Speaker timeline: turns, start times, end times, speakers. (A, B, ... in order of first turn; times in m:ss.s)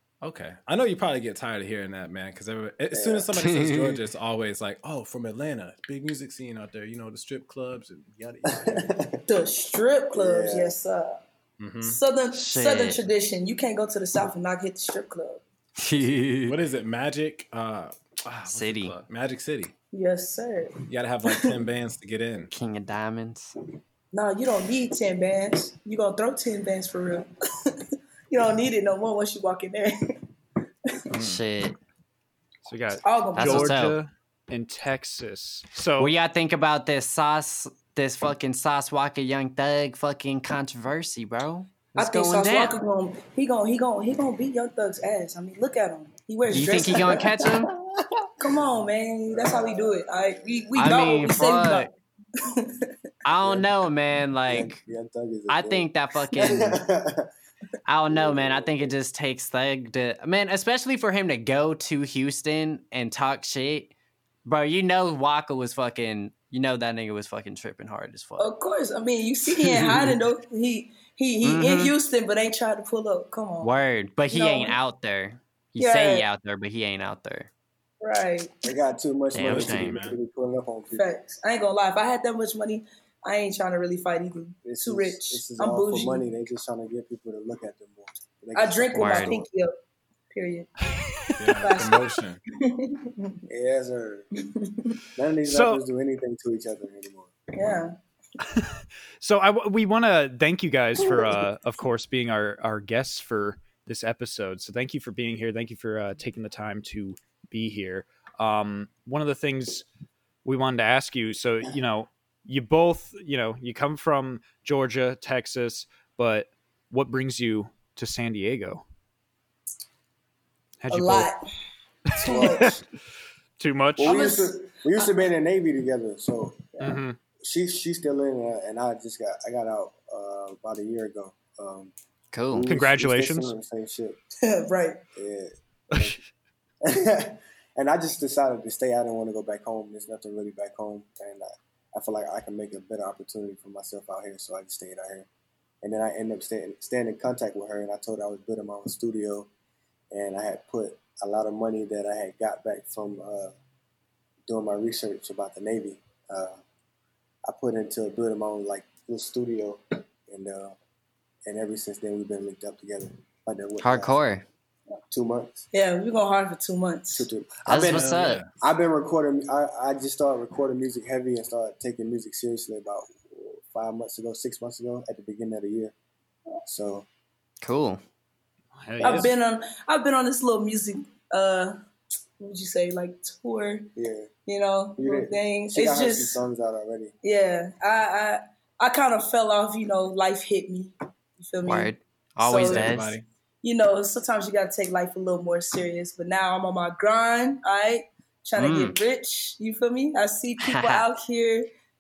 0:00.2-0:08.9 A
0:02.9-0:03.3 B
0:03.4-0:04.0 C
0:08.5-0:09.2 B
0:09.3-0:11.2 D
0:10.1-0:10.8 B
0:11.6-0:12.0 A
0:11.8-0:15.4 D
0:12.3-0:13.0 C
0:15.8-0:16.6 C
0:16.4-0:19.7 A
0:18.5-0:19.0 C
0:19.9-0:21.6 D
0:20.9-0:22.5 A
0:22.5-0:23.6 C
0:24.1-0:27.8 D
0:28.3-0:30.2 D
0:31.1-0:31.8 C
0:31.1-0:31.4 A
0:32.7-0:36.1 E
0:33.0-0:33.8 D
0:33.4-0:34.0 C
0:36.0-0:42.8 C
0:42.0-0:47.4 D
0:46.5-0:47.7 C
0:47.5-0:48.3 B
0:48.4-0:52.9 D
0:49.3-0:50.8 B
0:50.8-0:51.9 C
0:51.6-0:51.9 A
0:53.2-0:54.8 C
0:53.4-0:53.7 B
0:54.5-0:57.3 B
0:55.5-0:56.8 C
0:57.9-1:03.9 C
0:58.1-0:58.9 B
1:04.4-1:08.5 C
1:08.4-1:13.7 D
1:09.5-1:10.2 C
1:11.4-1:11.9 C
1:13.6-1:17.5 C
1:14.3-1:14.8 D
1:15.8-1:16.3 D
1:18.0-1:18.6 D
1:18.6-1:21.1 B
1:19.3-1:20.0 C
1:19.4-1:20.2 A
1:20.9-1:26.2 D
1:24.6-1:29.5 B
1:28.6-1:29.7 D
1:29.0-1:29.4 C
1:30.3-1:30.7 D
1:31.0-1:31.5 E
1:31.4-1:32.4 A
1:31.6-1:33.4 D
1:33.5-1:34.3 B
1:34.6-1:35.0 D
1:35.1-1:37.8 B
1:35.5-1:35.8 E
1:37.5-1:37.9 D
1:38.5-1:49.9 E
1:50.4-1:58.8 E
2:00.8-2:01.3 E
2:00.9-2:01.4 D
2:02.2-2:02.8 E
2:02.2-2:02.8 D
2:02.2-2:02.7 B
2:03.6-2:04.3 E
2:04.0-2:06.8 B
2:04.0-2:05.1 D
2:06.8-2:07.2 E
2:07.4-2:11.9 B
2:12.3-2:12.7 C
2:12.5-2:14.2 B
2:12.7-2:13.6 E
2:14.4-2:15.0 D
2:15.2-2:16.2 B
2:15.9-2:16.2 E
2:16.8-2:25.3 B
2:25.8-2:29.5 B
2:30.1-2:33.6 B
2:34.5-2:36.6 B
2:37.5-2:40.8 B
2:41.5-2:44.2 B
2:43.8-2:44.4 C
2:45.1-2:45.7 B
2:45.7-2:47.3 D
2:47.1-2:56.0 B
2:47.7-2:48.4 C
2:47.7-2:48.5 A
2:56.7-2:57.1 B
2:57.6-2:58.0 C
2:58.8-2:59.3 E
2:59.0-3:01.8 D
3:02.4-3:03.9 D
3:04.0-3:04.3 B
3:04.5-3:06.4 D
3:05.0-3:07.1 B
3:07.2-3:13.0 D
3:11.6-3:13.1 C
3:12.4-3:13.2 A
3:13.6-3:21.7 D
3:18.6-3:19.0 C
3:20.6-3:21.1 C